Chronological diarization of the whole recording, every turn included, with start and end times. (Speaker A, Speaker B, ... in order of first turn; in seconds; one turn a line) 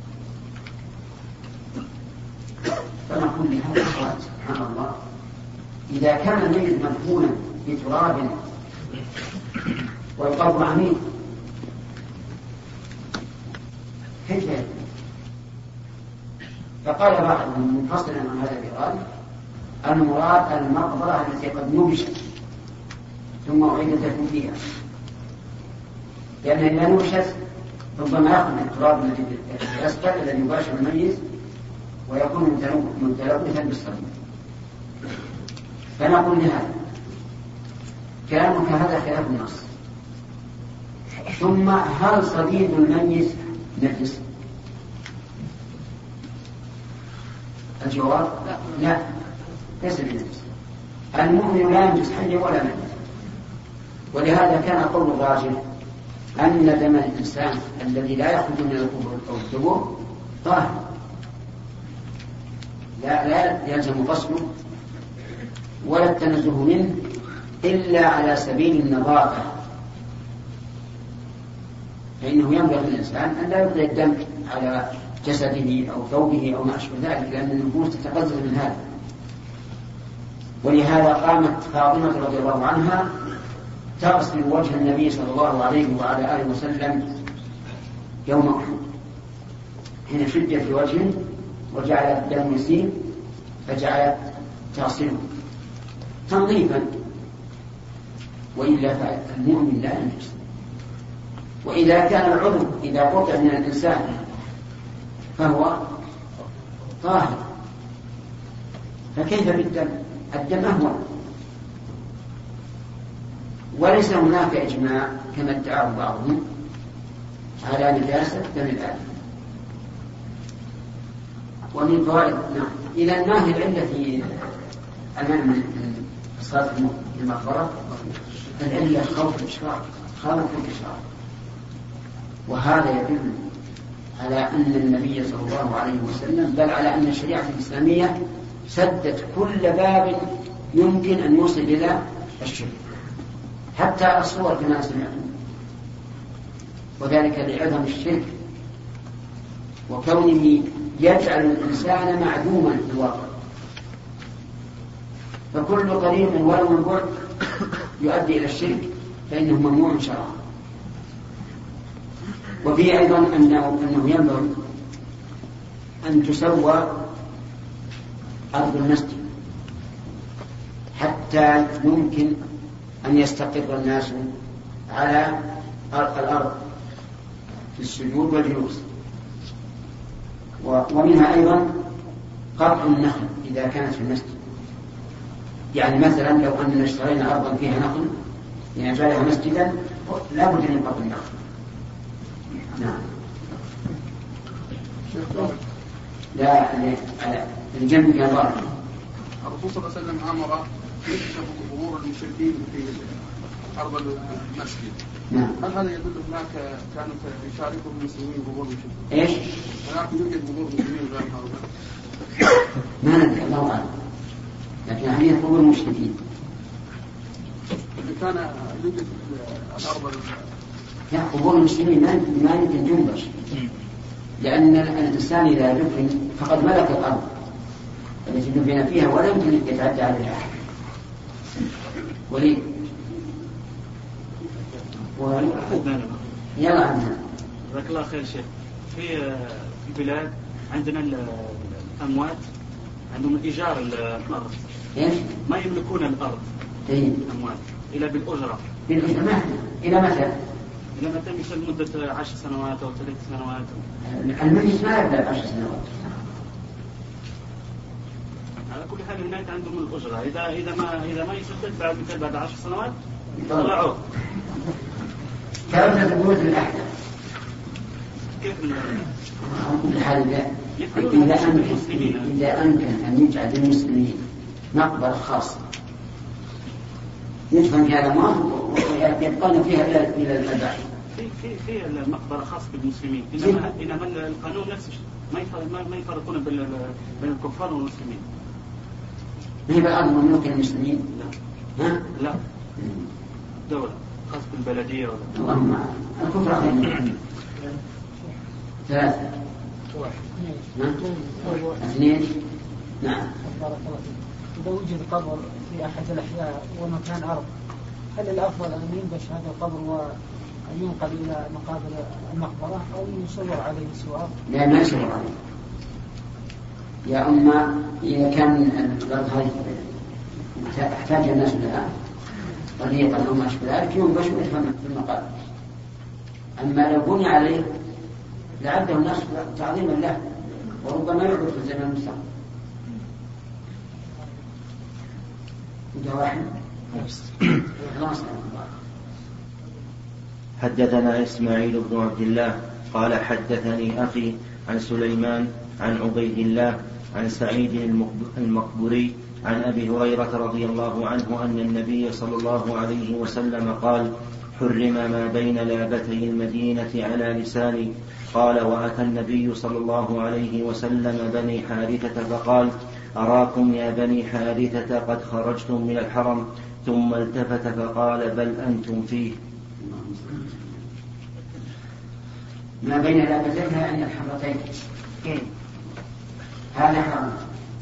Speaker A: 3.1-4.9
Speaker A: 5.9-8.4
Speaker A: 10.2-11.0
Speaker A: 14.2-14.7
Speaker A: 16.8-19.0
Speaker A: 19.8-22.2
Speaker A: 23.4-24.6
Speaker A: 26.4-27.4
Speaker A: 27.9-31.2
Speaker A: 32.1-34.1
Speaker A: 36.0-36.7
Speaker A: 38.3-39.7
Speaker A: 41.3-44.2
Speaker A: 47.8-49.0
Speaker A: 49.8-50.4
Speaker A: 51.1-53.0
Speaker A: 54.1-55.6
Speaker A: 56.4-60.8
Speaker A: 63.0-64.5
Speaker A: 65.8-67.1
Speaker A: 67.6-69.5
Speaker A: 72.2-78.8
Speaker A: 80.6-83.1
Speaker A: 84.0-87.1
Speaker A: 88.3-88.8
Speaker A: 90.1-93.0
Speaker A: 93.7-95.3
Speaker A: 96.3-96.9
Speaker A: 98.6-100.3
Speaker A: 101.6-104.1
Speaker A: 105.4-105.9
Speaker A: 107.0-107.5
Speaker A: 109.1-111.0
Speaker A: 113.7-116.4
Speaker A: 117.6-119.1
Speaker A: 121.7-124.4
Speaker A: 125.2-127.9
Speaker A: 128.6-131.0
Speaker A: 132.5-133.4
Speaker A: 134.2-138.2
Speaker A: 138.7-142.8
Speaker A: 143.7-145.3
Speaker A: 147.0-148.3
Speaker A: 149.9-153.3
Speaker A: 155.5-157.2
Speaker A: 158.0-160.4
Speaker A: 162.6-164.6
Speaker A: 166.0-167.1
Speaker A: 168.5-169.2
Speaker A: 170.9-172.4
Speaker A: 173.0-174.3
Speaker A: 174.9-176.6
Speaker A: 177.8-178.8
Speaker A: 180.6-181.8
Speaker A: 182.6-184.4
Speaker A: 185.7-188.1
Speaker A: 188.8-191.3
Speaker A: 192.7-193.0
Speaker B: 195.2-195.5
Speaker A: 196.3-198.7
Speaker B: 199.4-203.2
Speaker B: 203.8-204.9
Speaker A: 205.3-205.6
Speaker B: 205.6-209.0
Speaker A: 209.1-209.4
Speaker B: 209.9-211.6
Speaker A: 213.0-213.9
Speaker A: 214.9-216.2
Speaker B: 218.0-220.3
Speaker A: 221.1-223.3
Speaker A: 224.4-227.3
Speaker A: 228.3-230.6
Speaker A: 232.3-232.7
Speaker A: 235.2-235.7
Speaker C: 235.4-236.2
Speaker A: 236.6-237.2
Speaker C: 237.7-242.4
Speaker C: 243.1-244.6
Speaker A: 244.9-245.3
Speaker C: 245.4-246.4
Speaker A: 246.9-247.2
Speaker C: 247.2-248.6
Speaker A: 248.9-250.3
Speaker C: 250.9-253.8
Speaker A: 254.1-255.9
Speaker C: 258.7-262.9
Speaker A: 263.4-263.7
Speaker C: 263.4-264.0
Speaker A: 265.7-266.9
Speaker C: 268.4-269.1
Speaker A: 269.4-275.6
Speaker C: 270.8-272.3
Speaker A: 277.5-280.9
Speaker C: 281.1-288.2
Speaker A: 289.7-291.1
Speaker C: 292.1-292.4
Speaker C: 293.7-295.4
Speaker A: 295.3-297.1
Speaker A: 298.9-299.3
Speaker D: 300.4-301.8
Speaker A: 301.8-302.3
Speaker A: 303.0-303.3
Speaker D: 303.4-307.5
Speaker D: 308.1-310.1
Speaker D: 310.7-314.3
Speaker A: 314.5-315.4
Speaker A: 317.1-319.9
Speaker A: 320.6-321.9
Speaker A: 322.8-325.3
Speaker A: 326.6-327.6
Speaker A: 328.6-330.2
Speaker A: 330.8-332.2
Speaker A: 335.9-336.5
Speaker A: 337.6-338.7
Speaker E: 340.6-369.4
Speaker A: 369.8-370.6
Speaker A: 372.8-374.7
Speaker A: 376.7-377.4